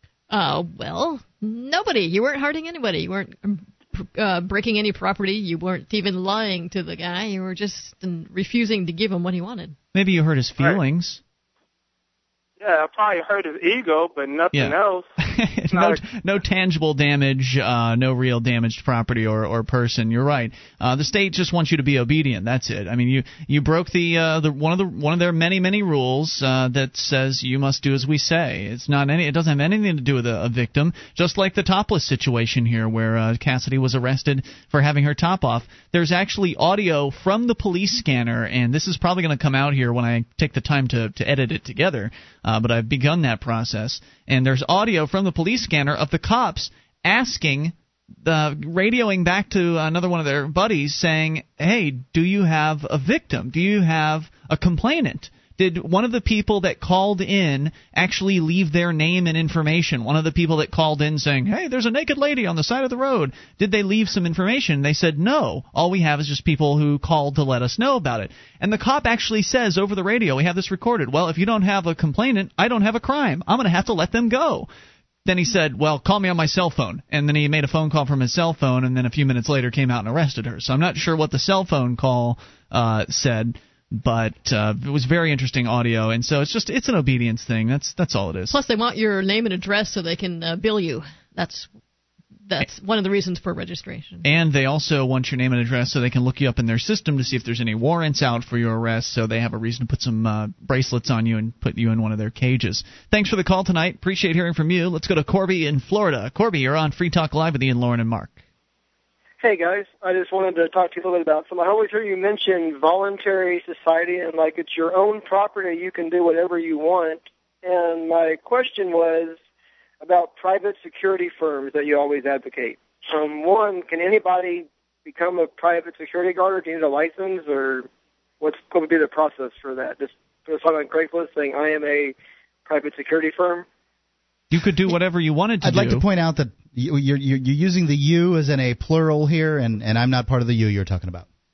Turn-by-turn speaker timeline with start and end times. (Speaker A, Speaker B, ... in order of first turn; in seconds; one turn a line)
Speaker A: 0.3-9.8
Speaker B: 9.9-11.2
Speaker C: 12.6-15.1
Speaker B: 14.5-74.7
Speaker C: 15.7-16.0
Speaker B: 75.2-88.6
Speaker A: 88.5-91.7
Speaker A: 92.5-94.2
Speaker B: 94.2-108.4
Speaker D: 109.4-119.4
Speaker D: 120.0-127.9
Speaker D: 128.4-132.2
Speaker D: 132.7-133.7
Speaker B: 134.5-136.1
Speaker E: 135.6-141.2